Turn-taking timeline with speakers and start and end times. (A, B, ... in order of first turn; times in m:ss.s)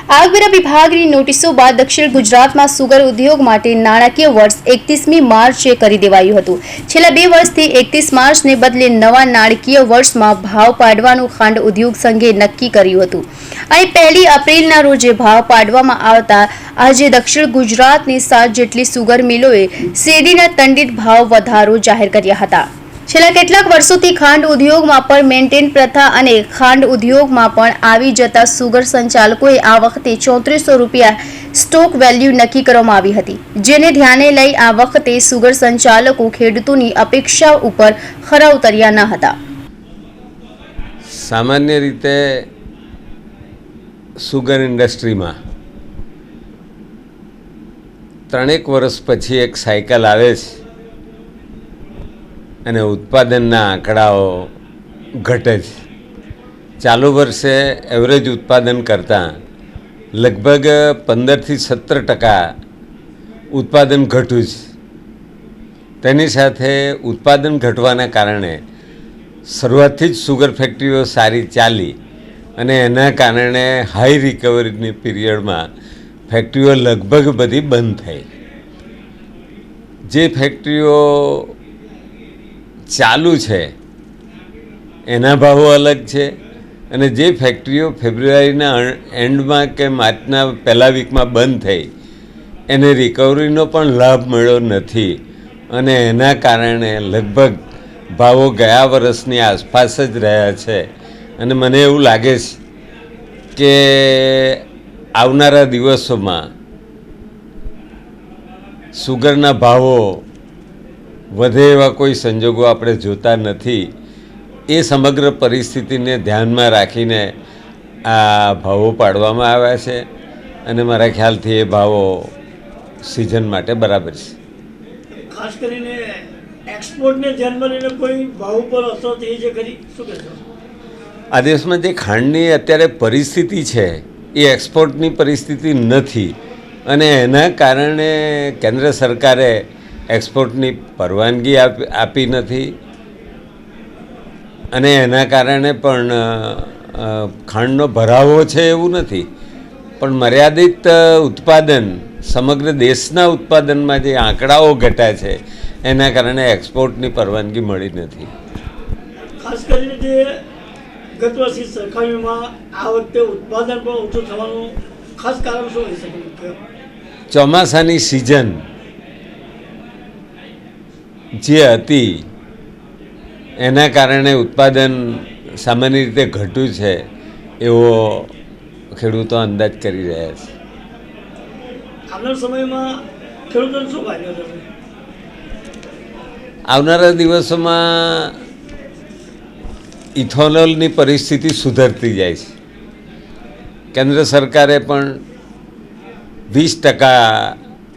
0:00.1-0:39.3 A
0:41.1-0:42.4 B
0:44.2-0:45.3 B
0:48.3-0:50.5 B
0:52.6-0:54.5 B
0:55.2-0:55.7 B
0:56.8-0:59.2 B
1:00.2-1:02.4 B
1:03.5-1:04.5 B
1:06.0-1:08.6 B
1:09.5-1:11.9 B
1:12.6-1:15.6 B
1:16.3-1:18.2 B
1:20.1-1:21.5 B
1:22.9-1:23.7 B
1:25.1-1:26.2 B
1:26.9-1:31.8 B
1:32.7-1:35.1 B
1:35.7-1:37.6 B
1:38.1-1:40.8 B
1:41.4-1:42.6 B
1:43.6-1:44.6 B
1:45.2-1:46.4 B
1:49.0-1:50.0 B
1:51.3-1:53.8 B
1:54.7-1:57.3 B
1:58.1-2:00.0 B
2:00.6-2:02.3 B
2:03.0-2:04.3 B
2:05.3-2:06.0 C
2:06.7-2:10.4 C
2:11.3-2:16.3 B
2:16.9-2:19.5 B
2:20.1-2:22.7 B
2:24.7-2:29.2 B
2:30.0-2:38.3 B
2:39.4-2:40.3 C
2:41.2-2:46.5 C
2:47.3-2:48.6 B
2:51.4-2:52.0 B
2:53.6-2:57.0 B
2:57.6-2:58.3 B
2:58.9-3:00.5 B
3:02.1-3:02.9 C
3:03.5-3:04.6 C
3:06.7-3:08.3 B
3:10.2-3:12.5 B
3:13.9-3:15.1 B
3:16.5-3:17.6 B